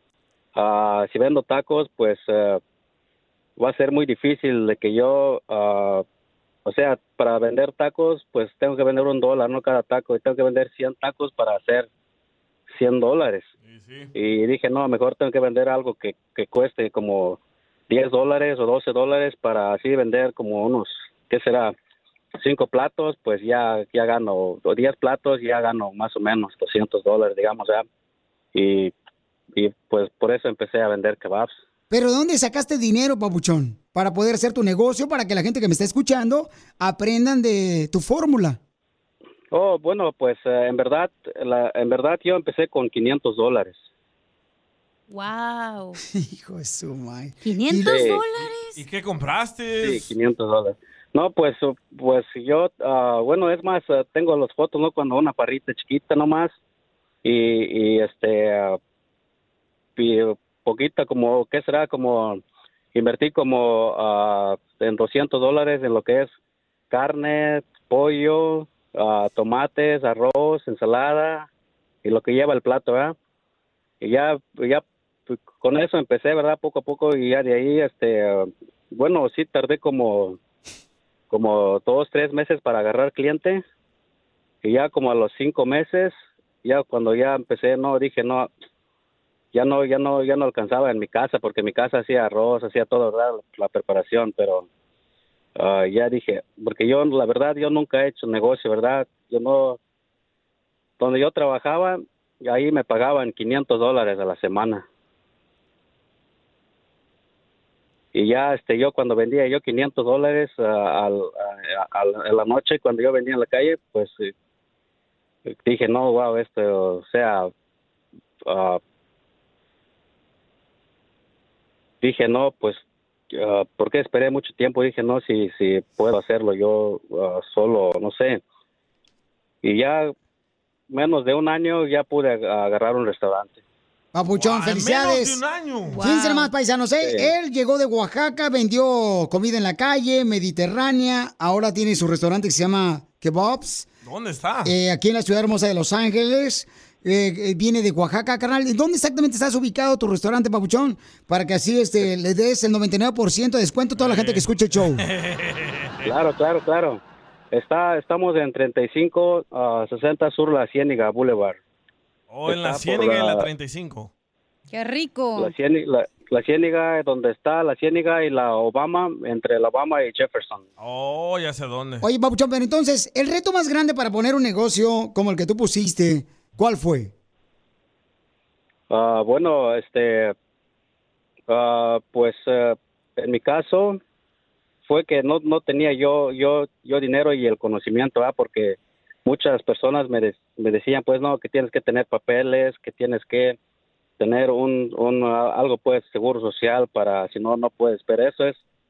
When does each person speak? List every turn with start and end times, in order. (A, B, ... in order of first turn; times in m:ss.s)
0:00.6-0:02.6 A
0:03.6-0:06.0 A
0:06.7-0:11.9 A
0:12.7-0:13.5 A
0:13.6-0:14.1 B
0:14.2-0:17.4 A
0:17.9-0:21.7 A
0:22.4-0:27.8 A
0:28.6-0:28.9 A
0:29.6-0:31.6 A
0:31.9-0:38.6 C
0:39.5-0:43.8 A
0:45.1-0:46.0 D
0:46.2-0:48.0 C
0:47.4-0:48.8 D
0:47.8-0:48.2 A
0:48.8-0:50.1 B
0:49.8-0:56.5 A
0:57.2-0:58.8 A
1:00.0-1:02.4 A
1:03.0-1:06.3 A
1:06.9-1:11.5 A
1:12.0-1:13.2 A
1:14.0-1:20.4 A
1:21.3-1:23.6 A
1:24.6-1:28.5 A
1:29.5-1:34.7 A
1:35.6-1:39.8 A
1:41.0-1:44.8 A
1:48.2-1:54.3 A
1:55.6-1:57.5 A
1:58.5-1:58.8 A
2:02.0-2:08.4 A
2:09.6-2:10.1 A
2:10.9-2:13.6 A
2:14.1-2:15.4 C
2:14.4-2:16.0 B
2:15.9-2:16.5 D
2:16.0-2:23.9 C
2:17.0-2:17.3 A
2:24.0-2:24.7 B
2:24.6-2:35.0 C
2:34.0-2:34.5 B
2:35.0-2:36.1 B
2:36.0-2:37.0 A
2:37.5-2:41.6 A
2:42.3-2:44.1 B
2:42.5-2:43.4 A
2:44.7-2:45.5 D
2:45.4-2:50.6 A
2:50.8-2:52.0 B
2:52.0-2:57.1 C
2:58.9-3:00.3 A
3:01.5-3:04.0 A
3:04.9-3:13.6 A
3:14.2-3:18.6 A